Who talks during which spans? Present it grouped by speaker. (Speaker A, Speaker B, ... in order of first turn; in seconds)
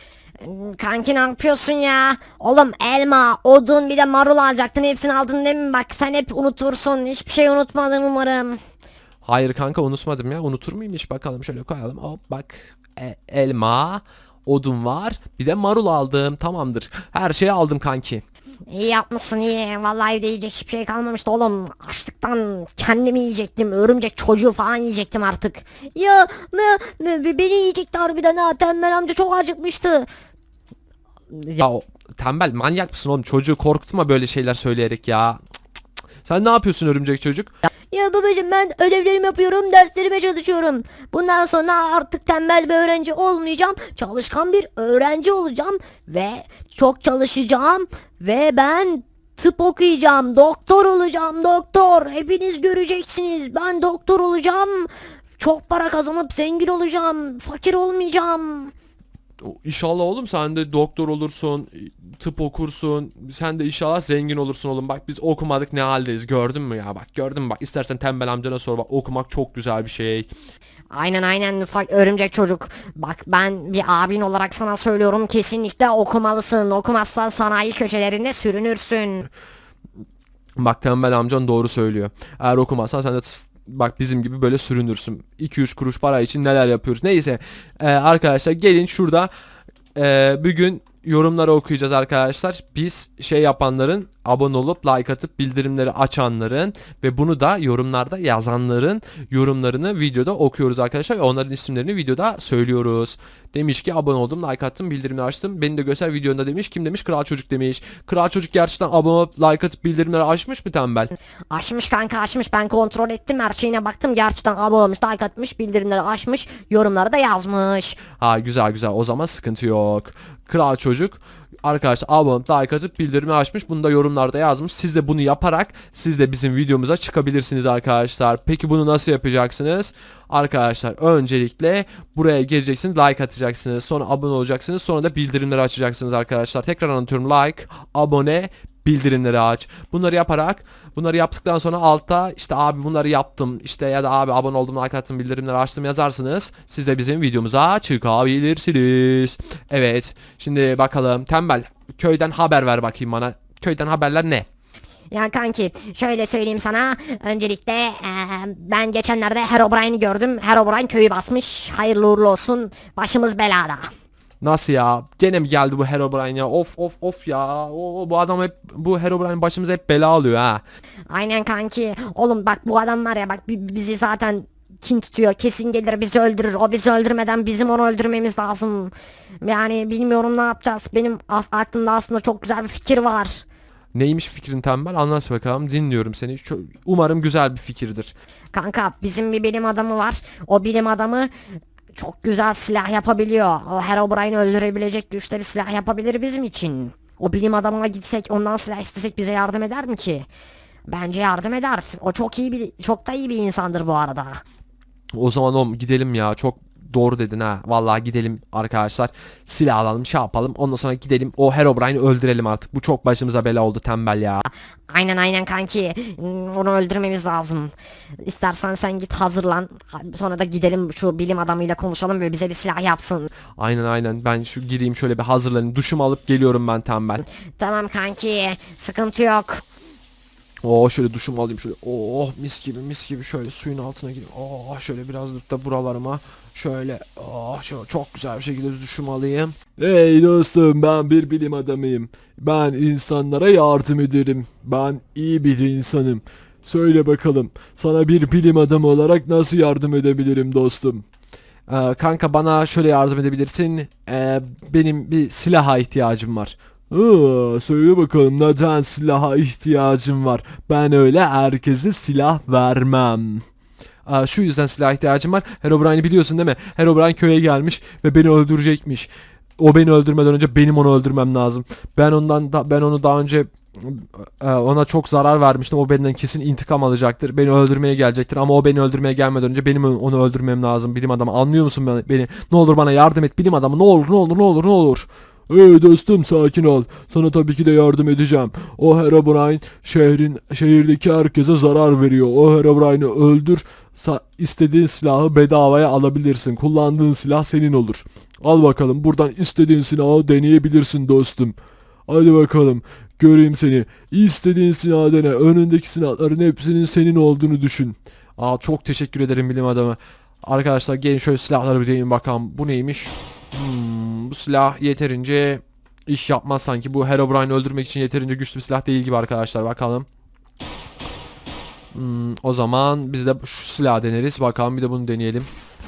Speaker A: 0.4-8.6, 18.7-30.1, 31.3-31.6, 37.9-58.7, 70.9-79.3, 111.5-118.0, 155.1-163.9, 171.1-183.4, 188.5-191.3, 191.9-200.3, 200.9-204.4, 214.9-223.3, 227.6-229.6
Speaker B: 9.2-18.2, 31.6-35.4, 36.2-37.5, 59.4-70.3, 80.6-89.3, 90.0-111.1, 118.2-154.5, 164.4-170.6, 183.9-188.2, 205.1-214.4, 223.6-227.2, 230.6-251.0, 251.7-263.4, 264.1-301.5, 302.1-320.1, 321.9-325.5